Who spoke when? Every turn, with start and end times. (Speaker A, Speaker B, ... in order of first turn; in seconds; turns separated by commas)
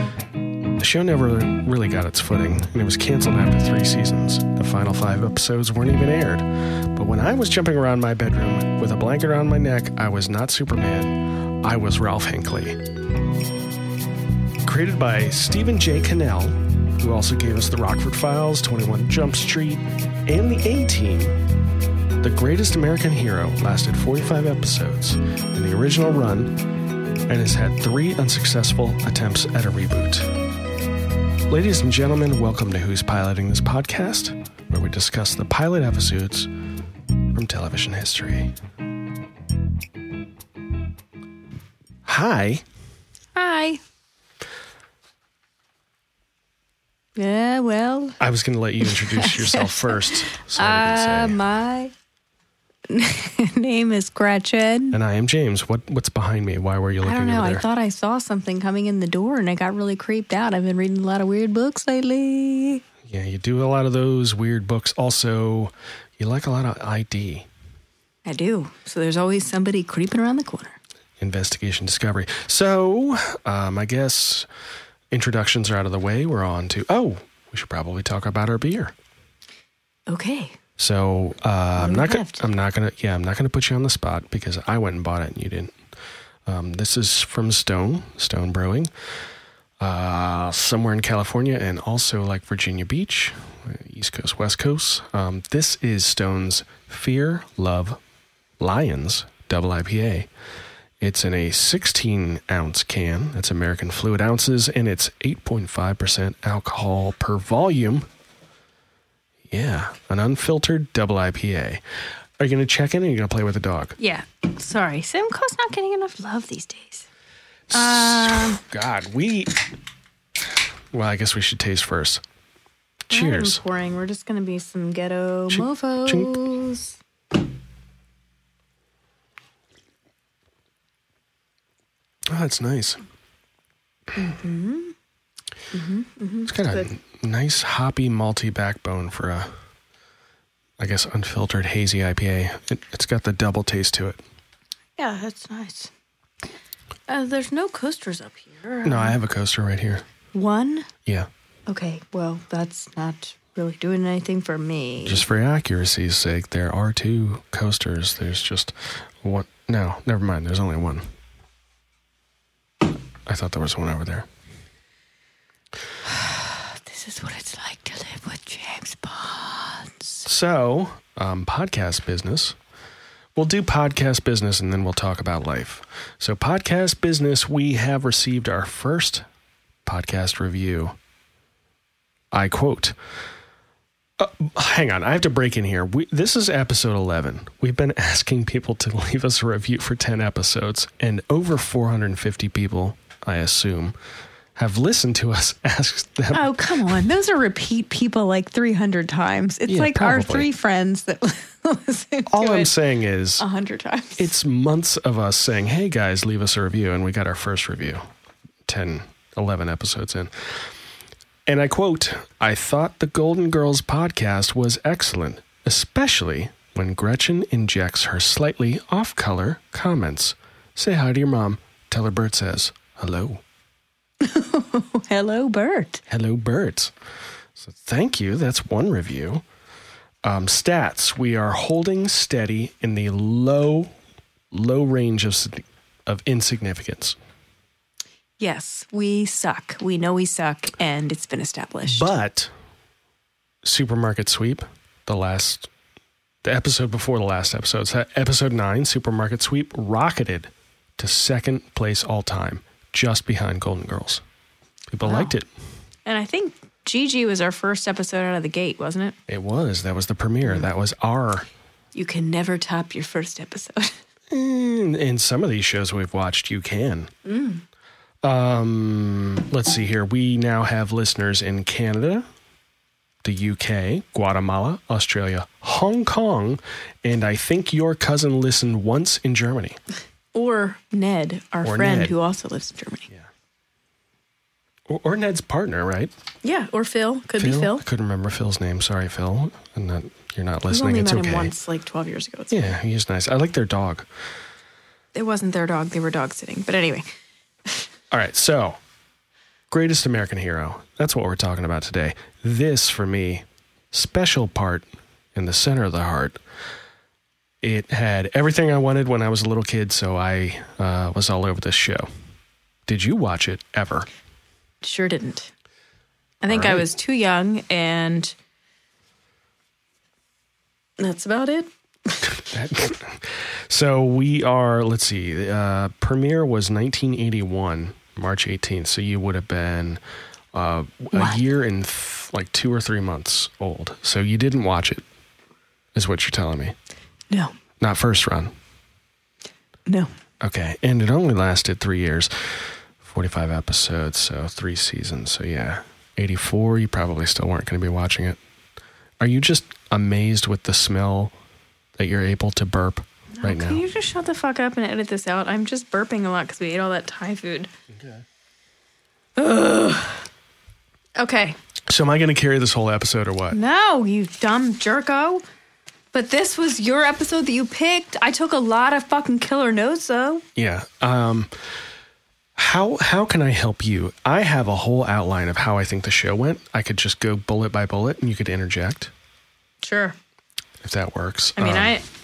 Speaker A: 0.8-12.8, Speaker A: 14.7-21.4, Speaker A: 22.2-26.6, Speaker A: 27.3-30.3, Speaker A: 31.5-36.5, Speaker A: 37.3-38.5, Speaker A: 42.1-42.6, Speaker B: 43.4-43.8, Speaker B: 47.2-48.2, Speaker A: 48.2-51.4, Speaker B: 48.8-51.9, Speaker B: 52.9-55.0, Speaker A: 54.9-57.6, Speaker B: 57.0-62.8, Speaker A: 63.1-67.5, Speaker B: 68.2-70.8, Speaker A: 71.2-74.5, Speaker A: 75.1-78.9, Speaker B: 80.1-80.6, Speaker A: 80.8-85.7, Speaker B: 81.8-82.4, Speaker A: 86.5-88.9, Speaker A: 89.8-98.0, Speaker A: 98.6-100.3, Speaker A: 101.0-108.1, Speaker A: 109.5-111.8, Speaker A: 112.4-114.0, Speaker B: 114.0-117.1, Speaker A: 117.7-119.6, Speaker B: 117.7-118.6, Speaker A: 120.9-122.2, Speaker A: 123.1-123.6, Speaker B: 123.1-127.0, Speaker A: 125.5-126.4, Speaker A: 132.3-133.0, Speaker B: 134.2-134.9, Speaker B: 135.7-136.9, Speaker A: 136.5-139.5, Speaker A: 140.8-144.2, Speaker B: 145.0-145.9, Speaker B: 147.1-149.2, Speaker A: 148.8-150.0, Speaker B: 150.3-150.9, Speaker B: 151.7-155.2, Speaker A: 155.1-161.0, Speaker A: 163.3-164.3, Speaker B: 166.1-170.2, Speaker A: 170.3-172.6, Speaker A: 173.4-179.2, Speaker A: 179.9-180.9, Speaker A: 182.3-183.0, Speaker A: 184.2-193.9, Speaker A: 194.6-197.1, Speaker B: 196.3-202.7, Speaker A: 199.7-200.5, Speaker A: 202.3-203.4, Speaker B: 203.4-204.3, Speaker A: 204.2-208.0, Speaker A: 208.7-210.3, Speaker A: 211.5-223.4, Speaker B: 224.2-226.0, Speaker A: 226.1-226.9, Speaker A: 227.6-229.4, Speaker A: 230.2-233.9, Speaker A: 234.5-237.2, Speaker B: 238.4-242.1, Speaker A: 241.8-242.5, Speaker A: 243.6-245.7, Speaker A: 246.4-254.2, Speaker A: 254.9-255.5, Speaker B: 255.0-255.3, Speaker B: 256.1-259.2, Speaker A: 259.3-261.4, Speaker B: 261.9-264.0, Speaker A: 264.3-267.1, Speaker B: 267.2-267.6, Speaker A: 268.2-272.3, Speaker A: 273.2-279.8, Speaker B: 280.3-283.1, Speaker A: 281.6-282.1, Speaker A: 284.9-286.1, Speaker B: 286.4-287.9, Speaker A: 287.4-291.5, Speaker B: 290.7-292.8, Speaker A: 292.5-294.1, Speaker B: 295.1-297.1, Speaker A: 298.1-298.8, Speaker A: 299.7-306.4, Speaker A: 307.6-312.1, Speaker A: 312.9-314.1, Speaker B: 314.8-315.5, Speaker B: 316.4-318.3, Speaker A: 316.5-316.8, Speaker B: 321.0-322.2, Speaker A: 322.3-330.0, Speaker A: 330.5-335.0, Speaker B: 331.1-331.4, Speaker A: 335.9-336.8, Speaker A: 337.8-338.5, Speaker A: 340.4-342.3, Speaker A: 343.0-348.4, Speaker A: 349.2-351.3, Speaker A: 352.0-353.8, Speaker B: 353.4-357.7, Speaker A: 358.0-358.2, Speaker B: 359.4-360.2, Speaker B: 361.2-361.6, Speaker A: 361.9-363.6, Speaker B: 363.5-365.4, Speaker B: 366.1-370.4, Speaker A: 370.6-371.5, Speaker A: 372.6-379.1, Speaker B: 379.8-380.2, Speaker A: 380.8-382.0, Speaker B: 381.6-382.1